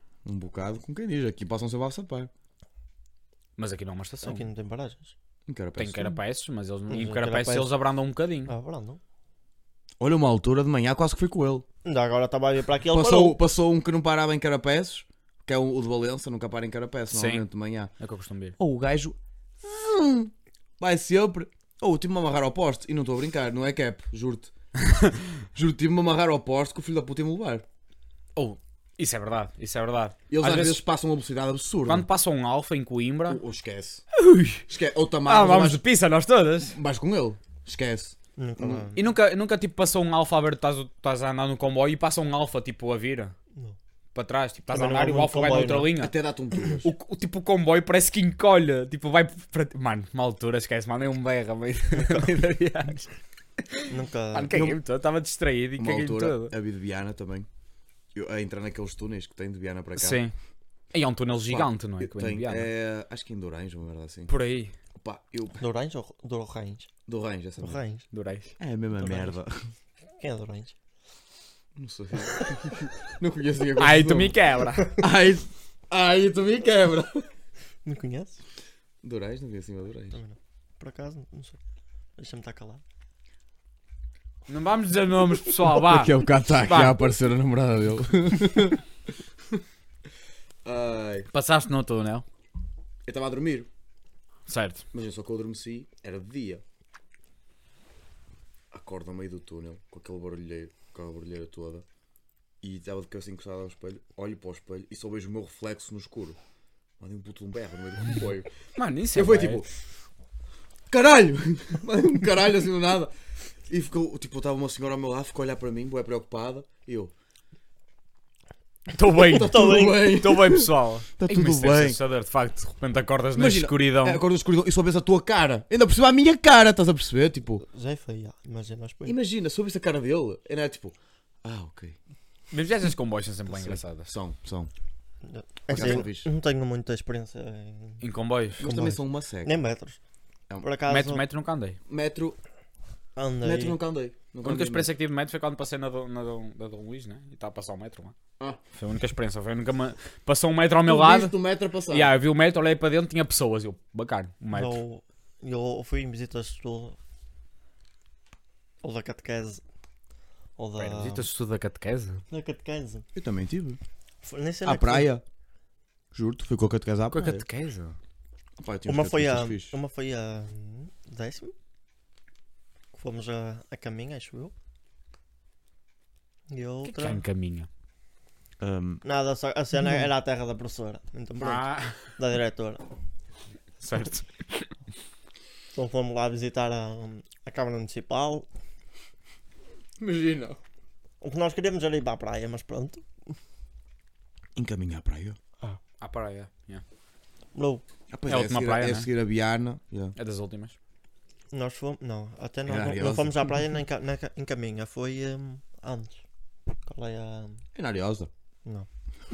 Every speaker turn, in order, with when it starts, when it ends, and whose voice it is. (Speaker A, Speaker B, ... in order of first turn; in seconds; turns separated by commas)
Speaker A: 0.2-2.3, Speaker B: 3.6-4.4, Speaker C: 4.2-5.1, Speaker A: 5.5-6.2, Speaker B: 5.8-8.5, Speaker C: 6.9-7.7, Speaker C: 8.5-9.0, Speaker A: 10.0-11.7, Speaker C: 11.8-13.4, Speaker A: 12.9-17.9, Speaker B: 17.1-17.4, Speaker B: 18.0-18.6, Speaker A: 18.6-24.5, Speaker A: 25.6-27.6, Speaker B: 28.4-30.8, Speaker A: 30.3-32.1, Speaker B: 31.9-33.4, Speaker A: 33.3-34.0, Speaker B: 34.1-34.6, Speaker A: 34.7-35.8, Speaker B: 35.3-36.8, Speaker A: 36.7-38.9, Speaker C: 38.4-39.0, Speaker B: 39.0-43.4, Speaker B: 44.1-46.1, Speaker C: 44.7-45.9, Speaker A: 46.0-46.9, Speaker B: 46.8-56.5, Speaker C: 53.9-54.6, Speaker A: 54.5-54.8, Speaker A: 55.8-57.5, Speaker A: 58.1-60.2, Speaker B: 60.0-60.3, Speaker B: 60.9-62.7, Speaker A: 61.5-64.3, Speaker B: 64.3-64.7, Speaker A: 65.0-65.6, Speaker C: 65.6-66.9, Speaker A: 67.1-67.8, Speaker C: 67.6-68.1, Speaker B: 68.1-68.5, Speaker A: 68.6-69.5, Speaker C: 69.0-69.4, Speaker C: 70.1-70.8, Speaker A: 71.8-74.4, Speaker B: 73.8-75.0, Speaker A: 75.0-77.3, Speaker C: 77.8-78.4, Speaker A: 79.0-80.2, Speaker C: 80.1-81.6, Speaker C: 82.2-82.8, Speaker B: 84.5-87.0, Speaker A: 85.7-88.8, Speaker A: 90.7-91.3, Speaker B: 91.3-92.2, Speaker A: 93.1-93.7, Speaker B: 94.5-94.8, Speaker A: 94.9-96.6, Speaker A: 98.7-101.8, Speaker A: 102.6-106.4, Speaker A: 107.0-108.5, Speaker B: 108.8-109.6, Speaker A: 109.2-109.7, Speaker A: 110.9-113.1, Speaker A: 113.7-117.1, Speaker B: 118.9-124.2, Speaker A: 119.2-122.0, Speaker C: 119.3-120.1, Speaker A: 123.3-127.6, Speaker C: 127.6-129.2, Speaker A: 129.1-132.0, Speaker B: 132.5-134.1, Speaker A: 133.5-134.7, Speaker C: 135.3-138.0, Speaker A: 135.7-136.3, Speaker B: 138.0-138.7, Speaker A: 138.6-139.5, Speaker C: 138.6-140.0, Speaker C: 140.6-141.2, Speaker B: 140.9-141.8, Speaker A: 141.9-142.4, Speaker C: 143.2-143.8, Speaker A: 143.4-144.9, Speaker B: 144.4-148.2, Speaker B: 148.7-151.3, Speaker A: 150.8-152.1, Speaker B: 151.9-154.8, Speaker C: 154.5-157.0, Speaker C: 158.8-159.6, Speaker C: 160.6-161.3, Speaker B: 160.8-162.2, Speaker C: 162.3-163.1, Speaker A: 163.2-163.8, Speaker C: 164.2-165.1, Speaker A: 164.7-165.2, Speaker A: 166.1-167.5, Speaker B: 167.1-168.0, Speaker A: 168.6-169.8, Speaker C: 168.9-171.5, Speaker C: 172.9-174.5, Speaker C: 176.5-177.2, Speaker B: 176.8-177.7, Speaker A: 178.6-179.0, Speaker C: 179.0-182.8, Speaker B: 181.4-182.1, Speaker B: 183.8-184.7, Speaker C: 185.8-188.5, Speaker A: 190.0-190.6, Speaker C: 191.2-193.1, Speaker A: 194.6-195.4, Speaker B: 196.0-196.8, Speaker C: 197.5-197.8, Speaker A: 198.1-200.2, Speaker B: 198.3-199.1, Speaker B: 200.2-200.8, Speaker C: 201.5-206.2, Speaker A: 202.7-203.6, Speaker C: 206.9-207.6, Speaker A: 207.8-208.3